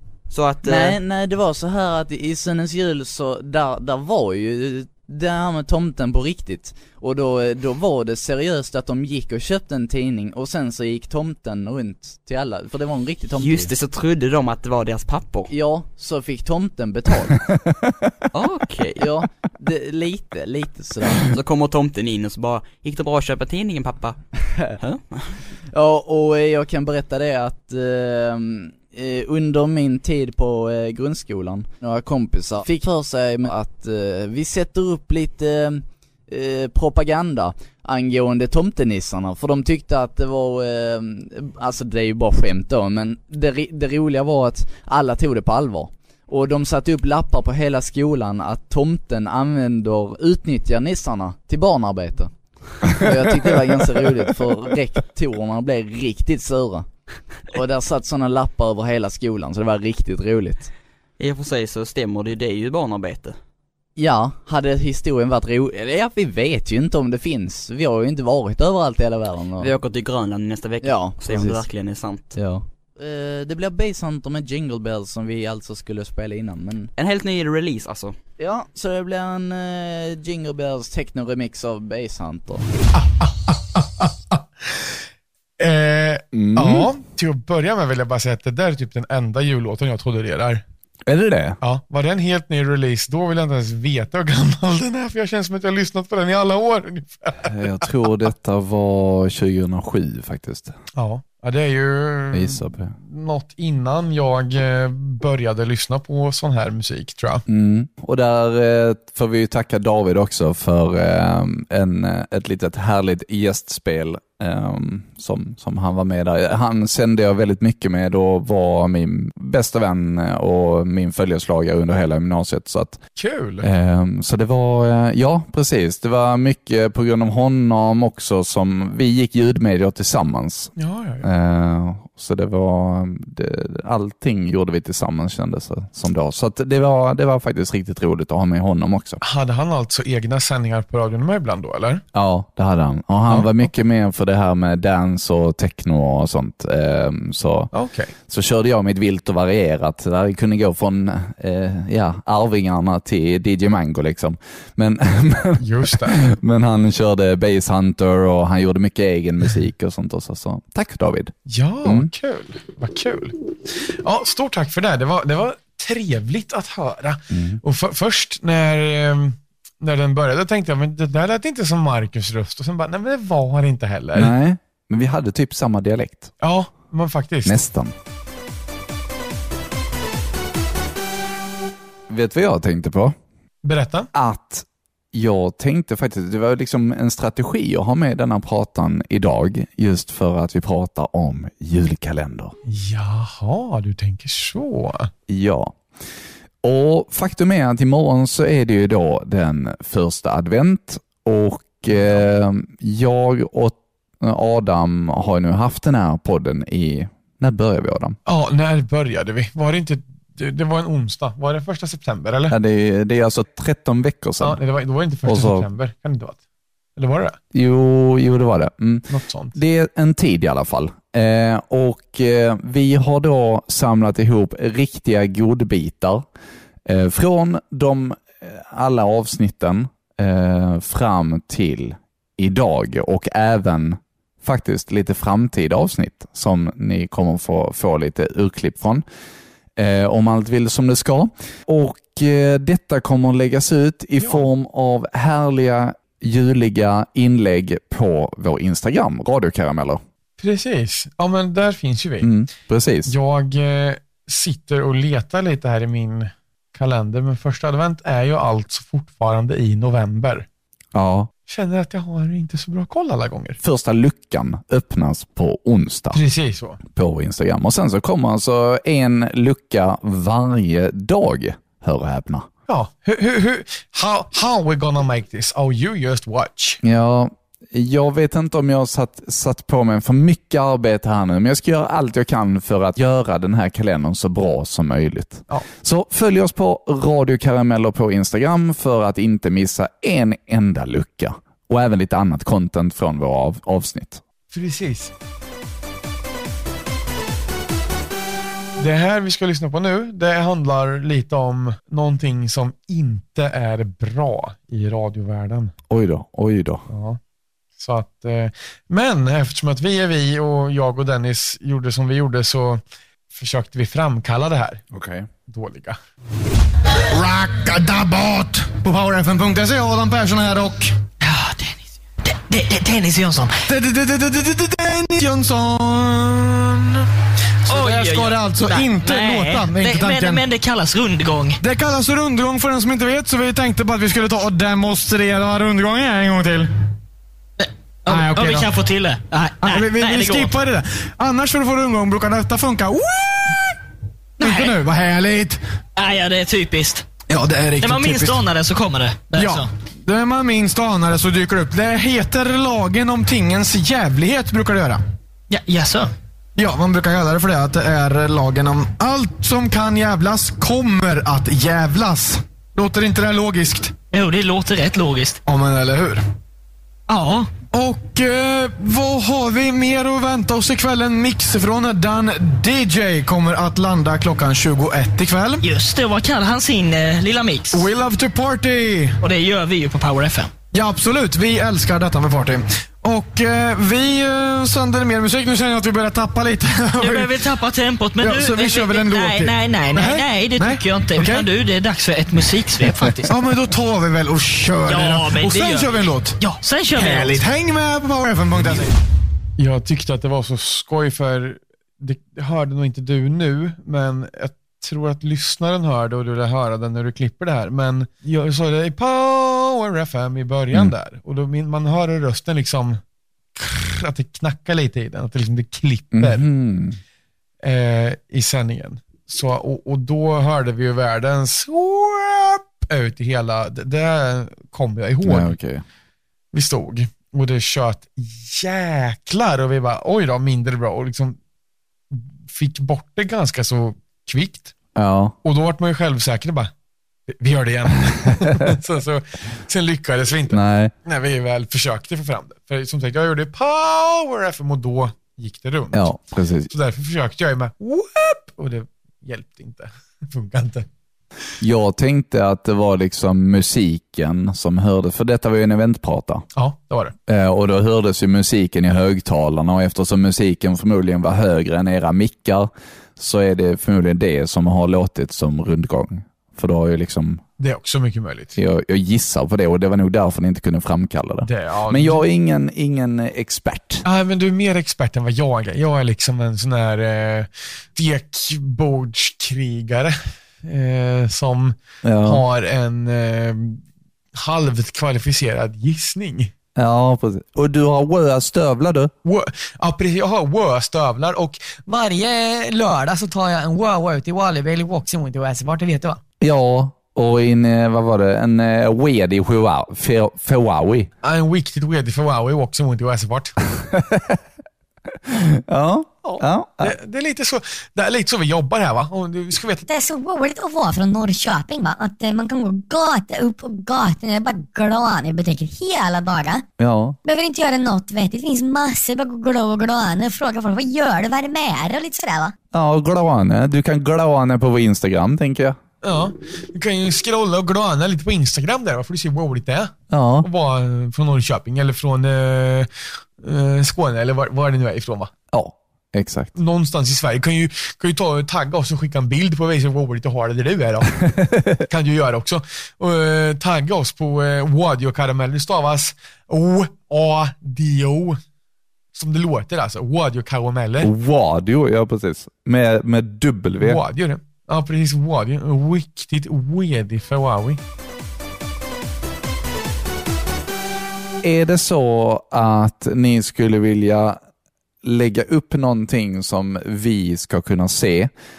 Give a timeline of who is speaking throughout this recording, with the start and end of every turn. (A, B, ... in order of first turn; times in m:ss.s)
0:00.3-0:01.0 A
0:00.6-0:13.7 B
0:13.4-0:15.5 A
0:15.5-0:17.4 B
0:17.5-0:18.1 C
0:18.3-0:19.1 A
0:19.0-0:21.3 B
0:21.2-0:24.2 A
0:24.8-0:25.4 A
0:25.7-0:56.9 B
0:57.5-1:00.7 B
1:01.2-1:03.4 A
1:04.0-1:09.7 B
1:09.6-1:12.4 A
1:10.8-1:11.6 B
1:12.4-1:16.9 B
1:17.0-1:18.2 A
1:18.4-1:22.6 B
1:23.0-1:24.9 D
1:25.6-1:30.6 D
1:26.3-1:26.9 C
1:31.1-1:31.6 C
1:31.6-1:37.9 D
1:37.4-1:40.8 C
1:41.0-1:47.4 D
1:42.3-1:43.0 C
1:47.5-2:03.0 C
2:03.2-2:03.7 D
2:03.6-2:19.2 C
2:10.8-2:11.3 D
2:19.2-2:22.0 D
2:22.1-2:27.7 C
2:23.3-2:23.7 D
2:27.7-2:28.1 D
2:28.3-2:42.1 C
2:35.6-2:36.2 D
2:41.5-2:54.3 D
2:47.3-2:47.6 C
2:54.2-2:56.3 C
2:56.4-2:57.6 D
2:57.4-2:58.0 C
3:02.1-3:03.2 C
3:03.6-3:04.1 D
3:04.1-3:12.6 C
3:12.7-3:15.1 D
3:15.3-3:15.8 C
3:16.6-3:28.2 C
3:21.9-3:22.2 D
3:28.3-3:32.6 D
3:32.5-3:34.6 C
3:34.4-3:36.4 D
3:35.2-3:35.7 C
3:37.0-3:37.4 D
3:37.5-3:46.2 C
3:39.1-3:39.6 D
3:46.8-3:59.0 C
3:59.8-4:10.0 C
4:10.4-4:12.3 D
4:12.2-4:13.1 C
4:13.1-4:20.5 D
4:20.9-4:21.3 C
4:21.5-4:23.6 D
4:23.6-4:26.2 C
4:26.1-4:26.8 D
4:26.9-4:32.5 C
4:32.7-4:36.8 D
4:36.8-4:54.2 C
4:54.5-4:55.1 D
4:58.8-5:05.7 D
5:05.9-5:06.8 C
5:06.9-5:07.2 D
5:07.8-5:12.8 D
5:13.3-5:14.8 D
5:14.9-5:15.3 C
5:15.5-5:16.0 D
5:17.1-5:21.0 E
5:21.2-5:23.6 F
5:23.7-5:27.0 E
5:27.7-5:30.4 E
5:27.7-5:31.6 F
5:31.6-5:36.7 E
5:37.6-5:40.5 F
5:38.1-5:38.7 E
5:39.6-5:43.7 E
5:44.4-5:44.7 F
5:44.4-5:45.6 E
5:46.0-5:47.1 F
5:47.3-5:48.4 E
5:47.8-5:49.7 F
5:49.3-5:55.0 E
5:55.5-5:56.1 F
5:56.6-6:04.0 E
6:04.1-6:05.4 F
6:05.5-6:06.2 E
6:07.1-6:07.5 F
6:07.7-6:15.6 E
6:15.6-6:17.9 F
6:17.7-6:19.2 E
6:19.2-6:20.5 F
6:20.7-6:27.4 E
6:27.0-6:33.3 F
6:28.2-6:31.5 E
6:33.3-6:36.4 E
6:34.9-6:37.5 F
6:36.9-6:38.9 E
6:39.6-6:53.0 D
6:53.6-6:56.4 D
6:56.1-6:57.0 C
6:57.6-7:05.6 D
7:05.2-7:05.8 C
7:06.5-7:11.4 D
7:12.1-7:14.7 D
7:15.0-7:15.4 C
7:15.4-7:16.7 D
7:17.3-7:26.1 D
7:18.4-7:18.7 C
7:20.5-7:20.9 C
7:25.9-7:26.7 C
7:26.7-7:30.9 D
7:31.6-7:36.5 C
7:36.6-7:37.2 D
7:37.3-7:47.4 C
7:47.6-7:48.6 D
7:48.6-7:54.0 C
7:51.4-7:52.2 D
7:54.0-8:03.8 D
8:02.0-8:02.4 C
8:04.4-8:06.5 D
8:06.8-8:09.1 C
8:09.2-8:11.8 D
8:11.9-8:16.2 G
8:16.4-8:21.1 C
8:21.2-8:23.6 D
8:23.8-8:24.4 C
8:25.3-8:27.0 C
8:26.2-8:29.9 D
8:29.9-8:36.6 H
8:36.8-8:37.2 C
8:37.2-8:42.5 H
8:42.7-8:45.8 C
8:46.0-8:52.9 D
8:50.1-8:50.5 C
8:53.4-8:55.3 D
8:55.5-8:56.5 C
8:56.6-9:01.1 D
9:01.2-9:01.8 C
9:01.9-9:08.4 D
9:09.1-9:11.1 D
9:11.0-9:14.0 C
9:13.8-9:17.8 D
9:21.4-9:24.4 C
9:25.0-9:28.3 C